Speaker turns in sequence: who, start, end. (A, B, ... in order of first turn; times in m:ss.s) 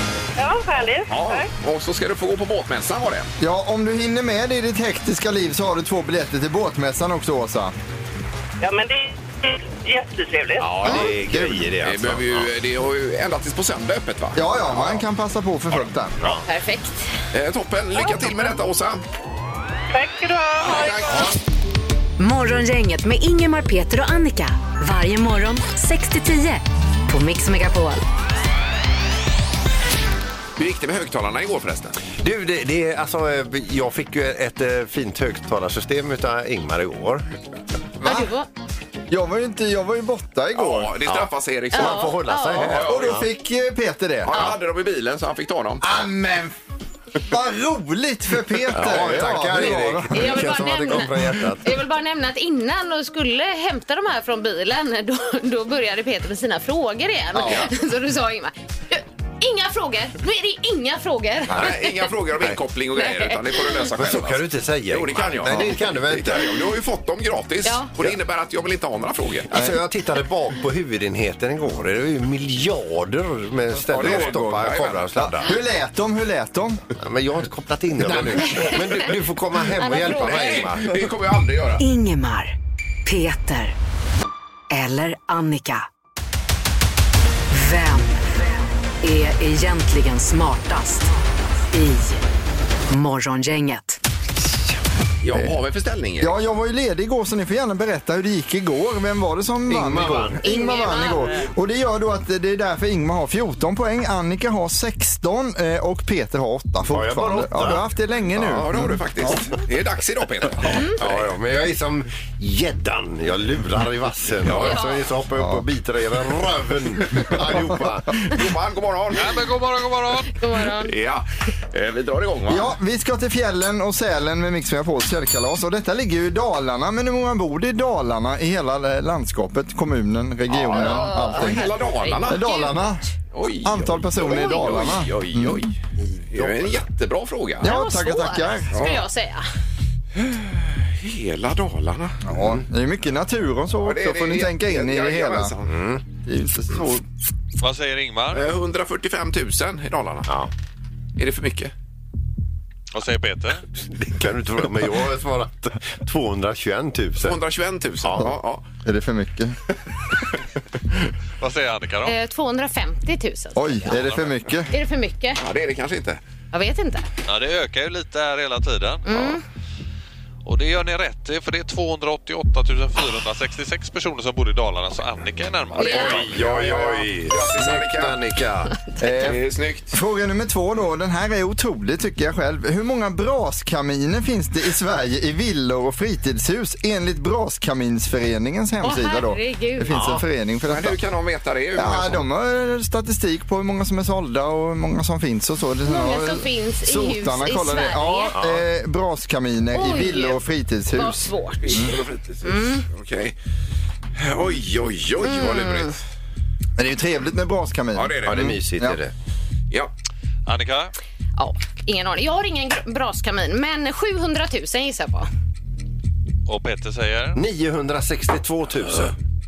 0:00.4-0:01.5 A
0:01.1-0:03.3 B
0:03.4-0:07.7 C
0:08.6-0:10.7 A
0:10.6-0:12.5 D
0:10.8-0:11.2 B
0:10.8-0:11.6 C
0:11.8-0:15.0 B
0:14.3-0:16.3 C
0:16.4-0:17.1 E
0:17.3-0:19.0 B
0:19.9-0:21.3 A
0:20.6-0:21.4 B
0:22.2-0:28.0 F
0:30.6-0:32.0 B
0:32.2-0:37.2 D
0:38.0-0:38.3 C
0:38.0-0:38.5 E
0:39.1-0:41.0 C
0:40.6-0:43.2 B
0:41.0-0:43.3 D
0:41.7-0:42.6 E
0:42.6-0:44.5 C
0:44.2-0:45.8 B
0:45.8-0:46.5 C
0:47.2-0:50.7 C
0:48.7-0:51.8 D
0:48.8-0:49.2 B
0:50.1-1:02.0 E
0:57.4-0:57.7 B
1:01.5-1:09.5 B
1:03.0-1:03.9 E
1:04.0-1:06.5 D
1:05.4-1:05.7 C
1:09.5-1:09.8 C
1:09.5-1:15.5 D
1:13.9-1:15.2 B
1:13.9-1:16.8 C
1:17.0-1:21.1 D
1:18.0-1:19.1 B
1:18.4-1:19.1 E
1:19.8-1:20.6 E
1:20.1-1:21.8 B
1:21.8-1:23.7 F
1:24.7-1:25.9 F
1:27.5-1:28.2 F
1:29.0-1:31.1 F
1:31.7-1:32.2 F
1:32.9-1:34.0 F
1:35.2-1:36.4 B
1:35.3-1:35.6 C
1:36.2-1:49.4 C
1:39.7-1:40.4 D
1:40.4-1:41.5 E
1:46.9-1:47.8 D
1:48.3-1:48.6 D
1:48.4-1:51.2 B
1:51.0-1:58.2 D
1:54.4-1:54.8 B
1:54.6-1:55.0 E
1:55.3-1:55.6 C
1:58.2-1:59.4 B
1:59.1-2:00.4 G
2:00.3-2:00.9 E
2:00.8-2:02.7 B
2:02.5-2:11.7 C
2:10.5-2:12.4 B
2:10.7-2:13.0 E
2:12.2-2:13.0 C
2:13.3-2:15.8 B
2:13.6-2:15.7 C
2:16.0-2:16.8 D
2:16.3-2:17.7 B
2:17.6-2:18.8 C
2:17.6-2:19.5 E
2:18.7-2:19.0 B
2:20.1-2:22.2 B
2:22.2-2:25.5 C
2:23.8-2:25.8 B
2:25.6-2:26.0 D
2:26.2-2:27.0 C
2:27.6-2:28.5 G
2:28.3-2:30.3 B
2:31.2-2:31.7 B
2:32.9-2:33.6 G
2:33.8-2:37.4 D
2:37.2-2:38.6 B
2:38.0-2:38.3 D
2:38.8-2:39.6 C
2:41.4-2:42.1 G
2:42.0-2:44.0 E
2:43.6-2:44.7 C
2:44.7-2:45.4 E
2:45.4-2:46.2 B
2:46.5-2:47.0 E
2:47.3-2:49.4 G
2:49.0-2:49.4 E
2:50.4-2:56.2 G
2:55.7-2:58.2 B
2:55.8-2:56.2 E
2:55.9-2:58.8 D
2:59.0-2:59.4 C
2:59.0-2:59.9 B
2:59.9-3:11.0 C
3:08.8-3:09.9 E
3:09.9-3:10.2 D
3:10.7-3:12.2 B
3:11.7-3:22.0 C
3:15.8-3:18.3 E
3:18.3-3:18.6 D
3:19.7-3:21.8 E
3:21.6-3:23.3 B
3:22.4-3:22.8 E
3:24.2-3:26.0 B
3:25.2-3:25.9 E
3:26.8-3:29.0 C
3:27.9-3:28.6 B
3:28.2-3:29.1 D
3:30.4-3:30.9 G
3:31.4-3:35.3 E
3:36.5-3:37.4 G
3:37.4-3:39.1 D